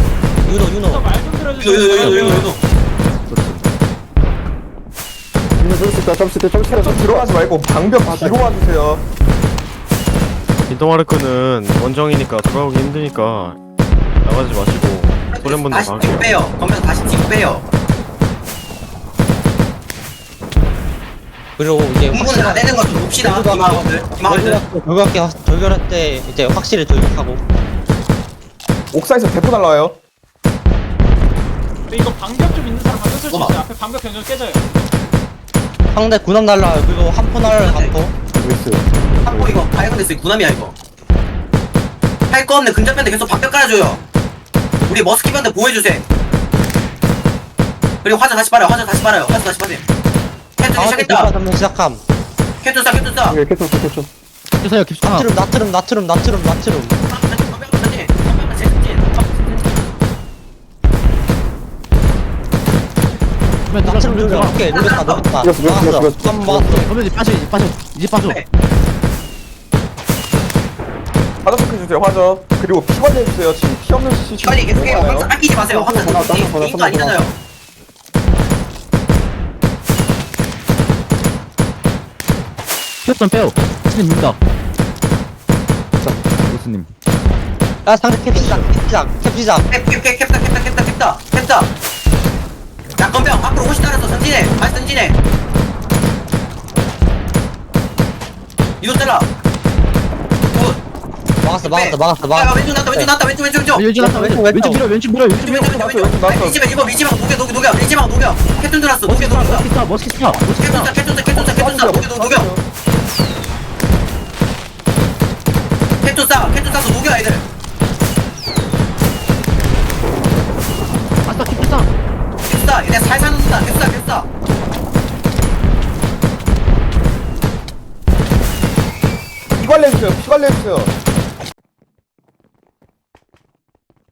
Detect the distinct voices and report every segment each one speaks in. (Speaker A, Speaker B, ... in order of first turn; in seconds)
Speaker A: 0.4-1.1, 21.6-27.4, 35.9-38.1, 50.8-52.0, 55.0-57.0, 63.8-66.9, 87.9-89.7, 101.4-103.1, 104.0-104.8
Speaker B: 0.7-2.6, 31.9-34.9
Speaker C: 1.6-2.6, 15.3-17.6, 22.1-24.6, 33.3-33.6, 37.5-37.9, 39.2-40.8, 42.3-44.0, 44.9-46.1, 48.0-49.8, 50.6-51.3, 52.6-53.4, 57.1-59.7, 64.7-65.2, 74.4-77.3, 89.7-91.7, 93.0-95.2, 98.8-99.3, 100.5-100.8, 101.6-103.8, 105.4-109.7, 110.3-112.5, 116.0-117.4, 122.5-124.3
Speaker D: 2.0-2.4, 3.3-3.6, 10.7-13.6, 14.2-16.4
Speaker E: 5.6-7.4, 8.0-8.5, 38.3-39.6, 53.3-54.1, 65.4-66.9, 75.7-77.2, 86.0-86.3
Speaker F: 6.7-9.1, 28.9-30.0, 71.4-75.3, 105.6-106.6, 111.3-112.6, 129.6-130.9
Speaker G: 54.6-55.3, 63.7-64.6, 66.9-68.4, 83.0-84.4, 86.4-86.9, 103.7-105.8, 109.1-110.9, 121.2-121.9